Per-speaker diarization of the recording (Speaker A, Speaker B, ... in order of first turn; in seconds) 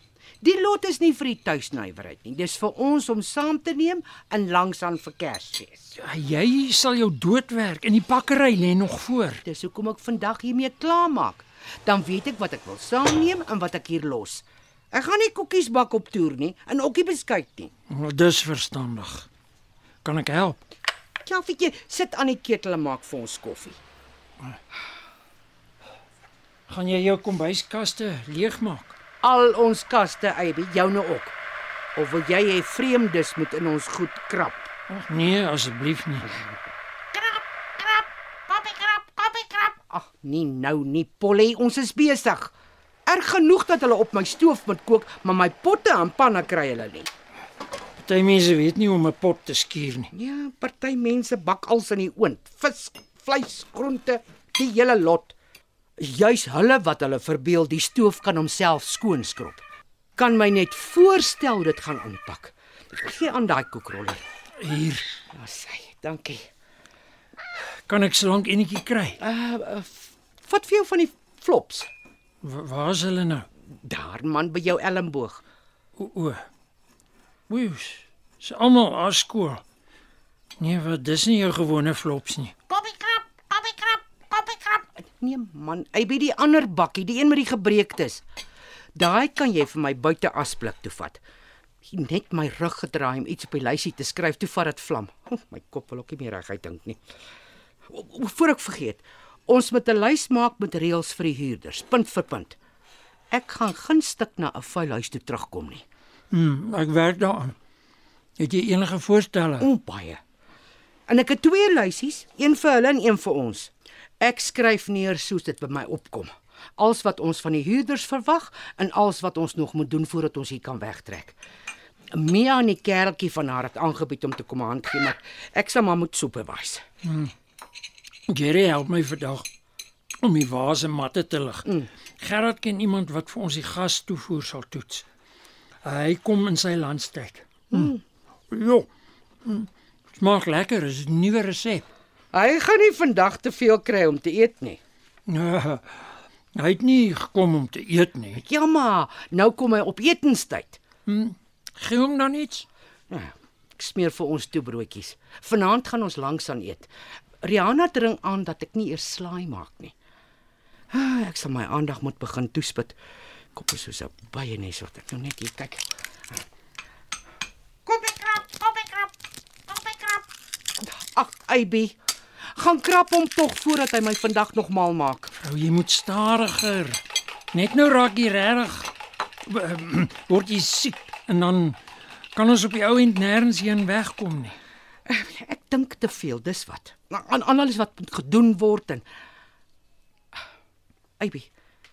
Speaker A: 0.4-5.9, 9.4-17.7, 21.2-23.8, 29.2-31.4, 31.9-34.7, 37.1-42.5, 43.1-47.1, 50.1-55.3, 56.0-59.6, 60.2-64.2, 65.3-66.5, 69.2-71.9, 73.8-75.4, 82.7-88.2, 89.0-91.2, 91.8-97.0, 97.9-102.6, 103.3-105.8, 109.6-110.2, 111.1-121.4, 122.1-126.8, 142.3-144.8, 148.5-150.8, 153.1-156.9, 157.4-159.9, 160.9-162.9, 163.5-165.8, 167.9-169.1, 169.7-170.2, 170.8-172.0, 172.5-175.3, 185.1-189.1, 191.2-191.5
Speaker B: 6.0-9.4, 17.9-19.3, 20.0-20.6, 26.7-28.9, 34.9-36.3, 48.0-50.1, 64.6-65.1, 67.9-69.2, 72.4-73.5, 76.0-76.5, 77.5-79.6, 80.6-82.5, 106.3-107.5, 108.4-109.7, 127.0-127.3, 128.3-129.4, 130.2-135.1, 135.8-137.9, 138.5-138.9, 139.4-141.9, 145.3-148.4, 151.1-152.7, 175.4-177.0, 177.5-178.9, 179.5-181.8, 182.3-184.6